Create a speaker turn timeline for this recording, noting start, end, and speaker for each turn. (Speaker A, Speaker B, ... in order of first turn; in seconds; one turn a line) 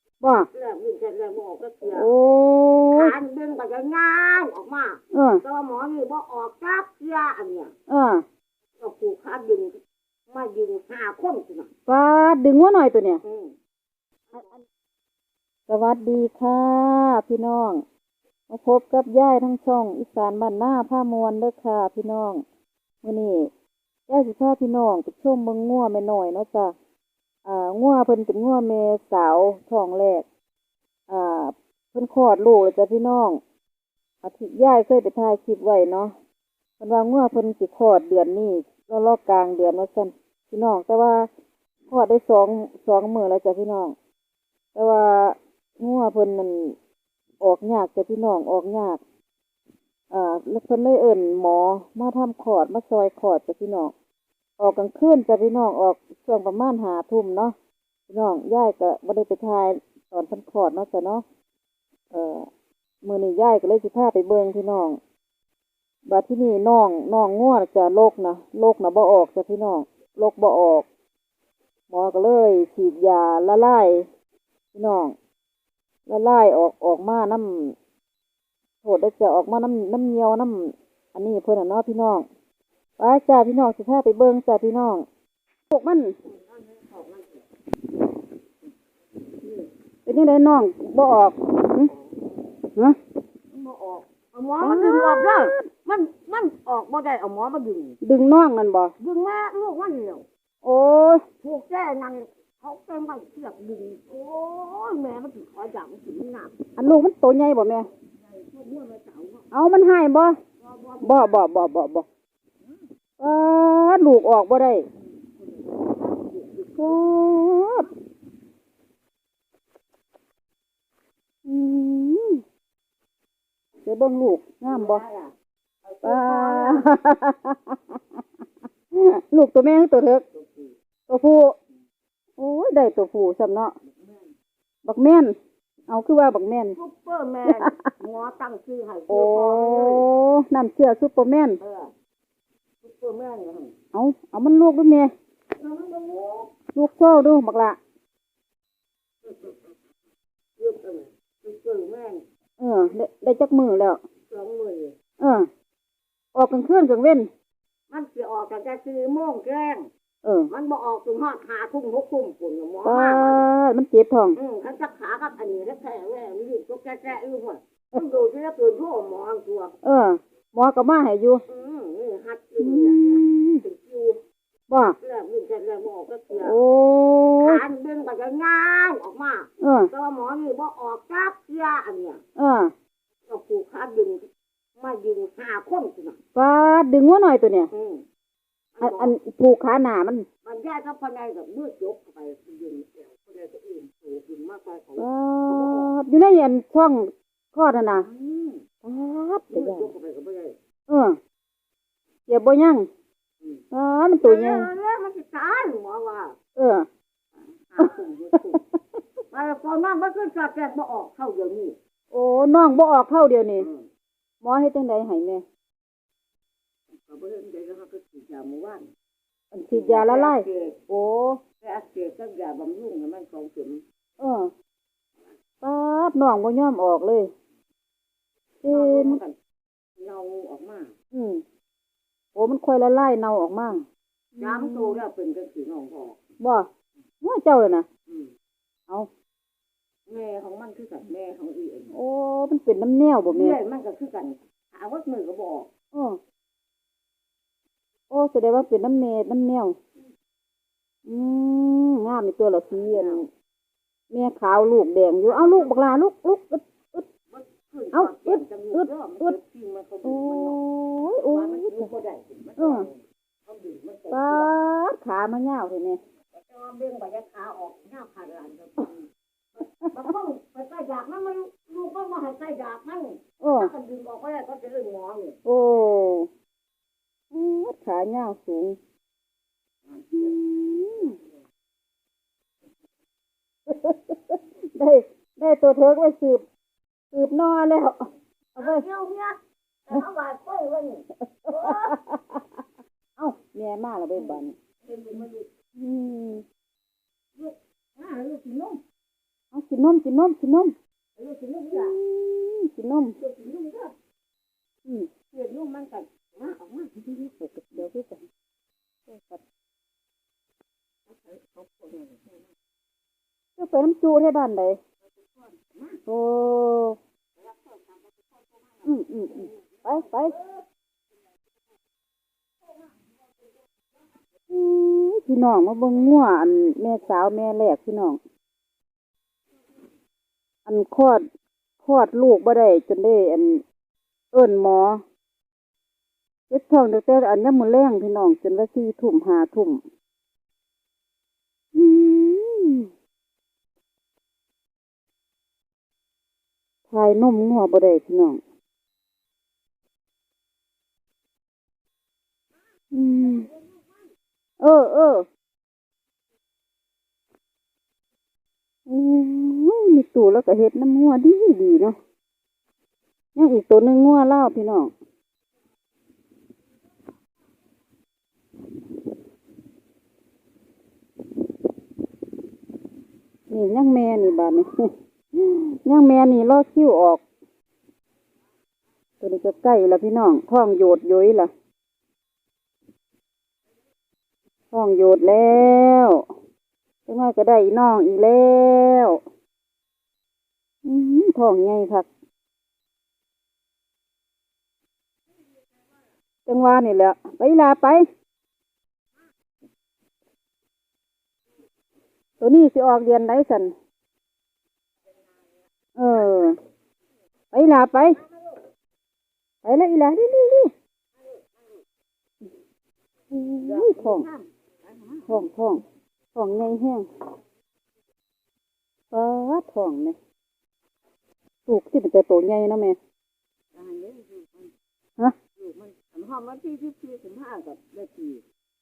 Speaker A: 0.2-0.5
Speaker B: 0.5-2.1
Speaker A: 1.9-3.1
Speaker B: 2.9-7.7
Speaker A: 5.1-5.4
Speaker A: 7.9-8.2
Speaker B: 8.8-9.8
Speaker B: 10.3-11.7
Speaker A: 11.9-13.2
Speaker B: 13.2-13.5
Speaker A: 15.7-17.8
Speaker A: 18.5-22.4
Speaker A: 23.0-23.5
Speaker A: 24.1-26.8
Speaker A: 27.4-30.2
Speaker A: 31.1-33.4
Speaker A: 34.2-36.1
Speaker A: 36.8-41.3
Speaker A: 41.9-44.0
Speaker A: 44.8-46.8
Speaker A: 47.4-49.0
Speaker A: 50.1-53.9
Speaker A: 54.6-57.5
Speaker A: 58.1-61.2
Speaker A: 62.1-62.5
Speaker A: 63.0-65.0
Speaker A: 66.1-70.9
Speaker A: 71.9-74.1
Speaker A: 74.8-75.2
Speaker A: 76.1-77.8
Speaker A: 78.8-82.3
Speaker A: 83.0-85.0
Speaker A: 85.7-86.2
Speaker B: 86.3-87.4
Speaker A: 90.1-91.9
Speaker B: 93.5-98.0
Speaker A: 94.6-95.7
Speaker A: 98.0-98.9
Speaker B: 99.0-100.2
Speaker A: 100.6-101.2
Speaker B: 101.4-106.5
Speaker A: 106.8-107.9
Speaker B: 108.2-109.5
Speaker A: 109.5-110.4
Speaker B: 110.6-111.5
Speaker A: 111.0-112.1
Speaker A: 113.2-114.9
Speaker B: 115.4-117.0
Speaker A: 116.8-117.9
Speaker A: 121.5-122.4
Speaker A: 123.8-125.0
Speaker B: 124.7-126.9
Speaker A: 126.0-128.0
Speaker A: 128.9-130.2
Speaker B: 130.3-130.7
Speaker A: 131.1-131.6
Speaker A: 132.4-133.8
Speaker A: 134.8-135.4
Speaker A: 135.9-136.8
Speaker B: 136.8-140.1
Speaker A: 137.5-137.8
Speaker A: 139.1-141.6
Speaker B: 141.6-141.9
Speaker B: 142.8-143.8
Speaker A: 143.9-145.1
Speaker B: 145.6-146.5
Speaker A: 146.8-147.8
Speaker B: 149.3-149.5
Speaker B: 150.6-152.2
Speaker A: 152.6-154.0
Speaker B: 154.3-154.9
Speaker A: 155.2-155.5
Speaker A: 156.3-157.3
Speaker B: 157.9-159.9
Speaker A: 160.2-160.5
Speaker B: 160.5-163.5
Speaker A: 162.8-164.4
Speaker B: 164.4-169.8
Speaker A: 169.8-171.4
Speaker B: 171.5-174.2
Speaker A: 172.6-173.6
Speaker A: 174.7-175.0
Speaker B: 175.0-176.6
Speaker A: 176.4-177.6
Speaker B: 177.4-182.2
Speaker A: 179.6-179.9
Speaker A: 182.4-182.7
Speaker B: 183.3-186.2
Speaker A: 186.4-187.7
Speaker B: 187.7-188.0
Speaker B: 188.8-189.2
Speaker A: 188.8-190.3
Speaker B: 190.4-195.9
Speaker A: 195.0-198.1
Speaker B: 197.9-198.6
Speaker A: 198.8-199.9
Speaker B: 199.5-200.6
Speaker A: 200.9-201.2
Speaker A: 202.3-202.9
Speaker A: 203.7-204.7
Speaker B: 204.2-206.4
Speaker A: 206.6-206.9
Speaker B: 207.7-208.6
Speaker B: 209.3-211.8
Speaker A: 212.1-213.7
Speaker B: 213.6-213.9
Speaker A: 214.4-215.4
Speaker B: 217.0-218.9
Speaker A: 219.5-221.4
Speaker B: 219.7-220.8
Speaker B: 221.6-223.8
Speaker A: 224.2-224.5
Speaker A: 225.6-227.3
Speaker A: 228.6-229.2
Speaker B: 228.7-229.4
Speaker B: 230.0-230.9
Speaker A: 231.1-231.4
Speaker A: 232.3-235.0
Speaker B: 234.4-236.2
Speaker A: 236.4-236.7
Speaker A: 237.2-237.9
Speaker B: 240.1-241.9
Speaker A: 241.9-243.6
Speaker B: 243.2-245.7
Speaker A: 245.9-246.2
Speaker A: 248.1-249.8
Speaker A: 251.1-253.3
Speaker B: 252.7-253.2
Speaker A: 254.1-257.1
Speaker B: 255.3-255.8
Speaker B: 257.3-260.6
Speaker A: 257.9-259.4
Speaker A: 260.0-261.9
Speaker B: 261.2-264.5
Speaker A: 262.6-262.9
Speaker A: 264.1-266.0
Speaker B: 266.4-269.1
Speaker B: 269.9-275.4
Speaker A: 273.4-273.7
Speaker A: 275.4-276.3
Speaker A: 277.3-278.8
Speaker A: 280.1-281.2
Speaker A: 283.7-286.4
Speaker A: 287.1-288.1
Speaker A: 288.6-288.9
Speaker B: 288.6-292.0
Speaker A: 291.4-292.4
Speaker A: 293.2-294.5
Speaker B: 294.8-295.5
Speaker A: 295.8-296.4
Speaker B: 297.4-298.8
Speaker A: 299.5-300.8
Speaker B: 301.2-302.0
Speaker A: 301.7-303.2
Speaker B: 303.2-303.9
Speaker B: 305.3-307.0
Speaker A: 307.0-308.2
Speaker A: 309.1-309.4
Speaker B: 311.1-312.4
Speaker A: 313.6-314.8
Speaker B: 315.2-316.0
Speaker A: 316.1-317.0
Speaker B: 317.4-318.9
Speaker A: 318.9-320.4
Speaker A: 324.5-328.2
Speaker A: 330.7-331.2
Speaker A: 331.8-333.6
Speaker A: 334.3-335.0
Speaker A: 336.5-339.8
Speaker A: 341.7-342.9
Speaker A: 346.9-348.4
Speaker A: 352.9-353.5
Speaker A: 354.6-355.3
Speaker A: 358.9-362.0
Speaker A: 363.4-364.9
Speaker A: 373.5-377.2
Speaker A: 379.2-381.5
Speaker A: 384.7-386.3
Speaker A: 387.1-389.2
Speaker A: 390.8-392.1
Speaker A: 396.5-398.1
Speaker A: 402.4-403.7
Speaker A: 406.0-406.6
Speaker A: 407.5-408.2
Speaker A: 409.6-410.7
Speaker A: 413.3-414.2
Speaker B: 413.6-415.3
Speaker A: 415.3-415.8
Speaker A: 416.4-417.1
Speaker A: 419.1-420.2
Speaker A: 421.7-423.0
Speaker B: 423.7-424.7
Speaker B: 425.6-428.4